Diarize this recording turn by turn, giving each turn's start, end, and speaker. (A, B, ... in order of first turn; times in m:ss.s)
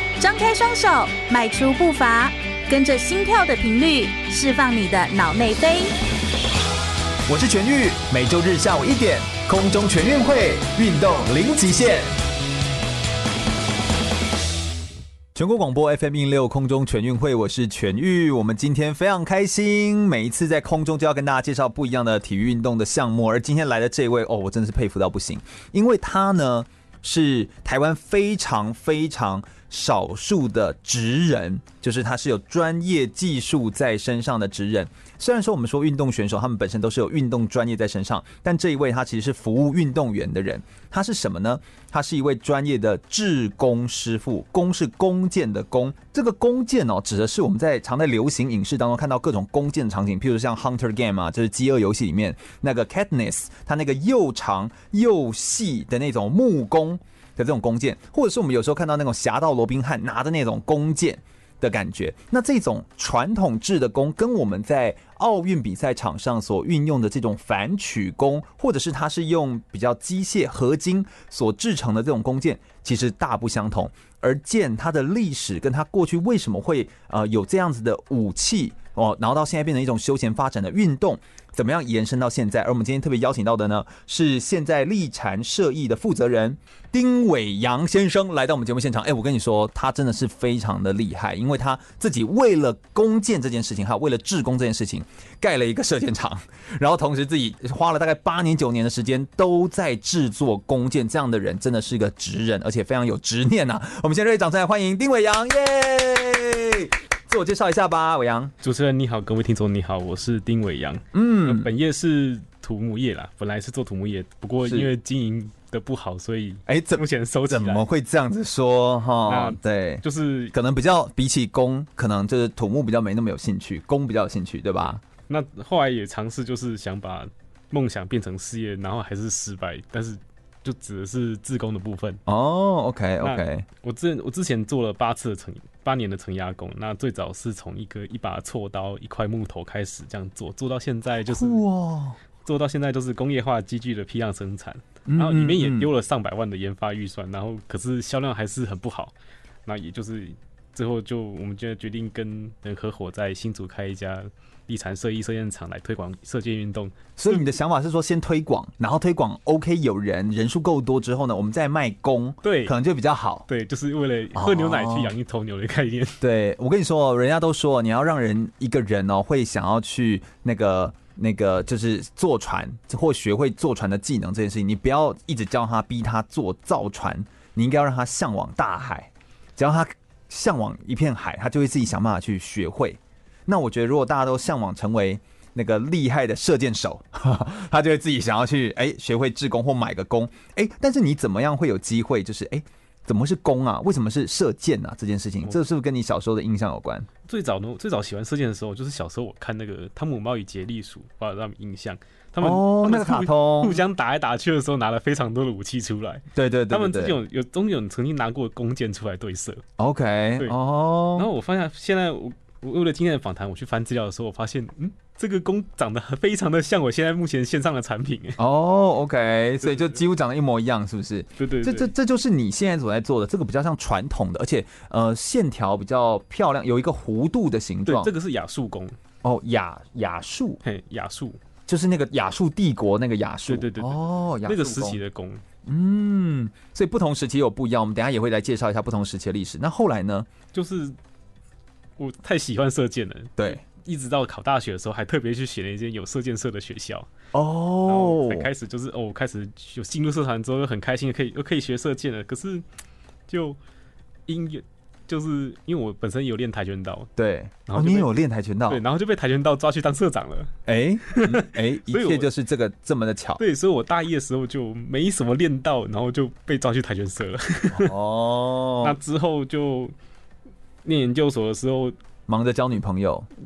0:00.2-0:05.9 A
0:07.3-0:12.1 B
0:15.4-1:48.5 B
1:48.6-1:57.9 C
1:51.1-1:51.7 B
1:54.6-1:54.9 B
1:56.7-2:05.0 B
1:59.3-2:00.5 C
2:05.3-2:12.2 C
2:12.3-2:13.7 B
2:13.2-2:21.6 C
2:21.2-2:22.2 B
2:22.4-2:29.1 C
2:25.1-2:25.9 B
2:29.7-2:37.6 C
2:37.2-2:43.5 B
2:42.4-2:42.8 C
2:43.5-2:46.2 C
2:44.3-2:45.1 B
2:46.2-3:17.1 B
3:17.3-3:29.6 C
3:22.4-3:23.8 B
3:26.4-3:27.2 B
3:29.8-3:31.3 B
3:31.2-3:38.4 C
3:38.4-3:48.1 B
3:39.6-3:40.0 C
3:41.4-3:41.9 C
3:47.8-3:49.0 C
3:49.2-3:50.6 B
3:50.6-3:51.4 C
3:51.7-3:55.0 B
3:53.5-3:55.4 C
3:55.6-4:00.3 B
4:00.5-4:01.0 C
4:02.0-4:07.1 C
4:07.3-4:08.5 B
4:07.9-4:12.6 C
4:13.3-4:13.6 C
4:14.3-4:17.1 C
4:17.2-4:18.8 B
4:17.7-4:18.1 C
4:18.7-4:20.5 C
4:20.7-4:23.4 B
4:21.1-4:22.3 C
4:23.4-4:27.9 C
4:27.7-4:29.0 B
4:28.8-4:29.9 C
4:30.8-4:32.0 C
4:32.3-4:33.3 B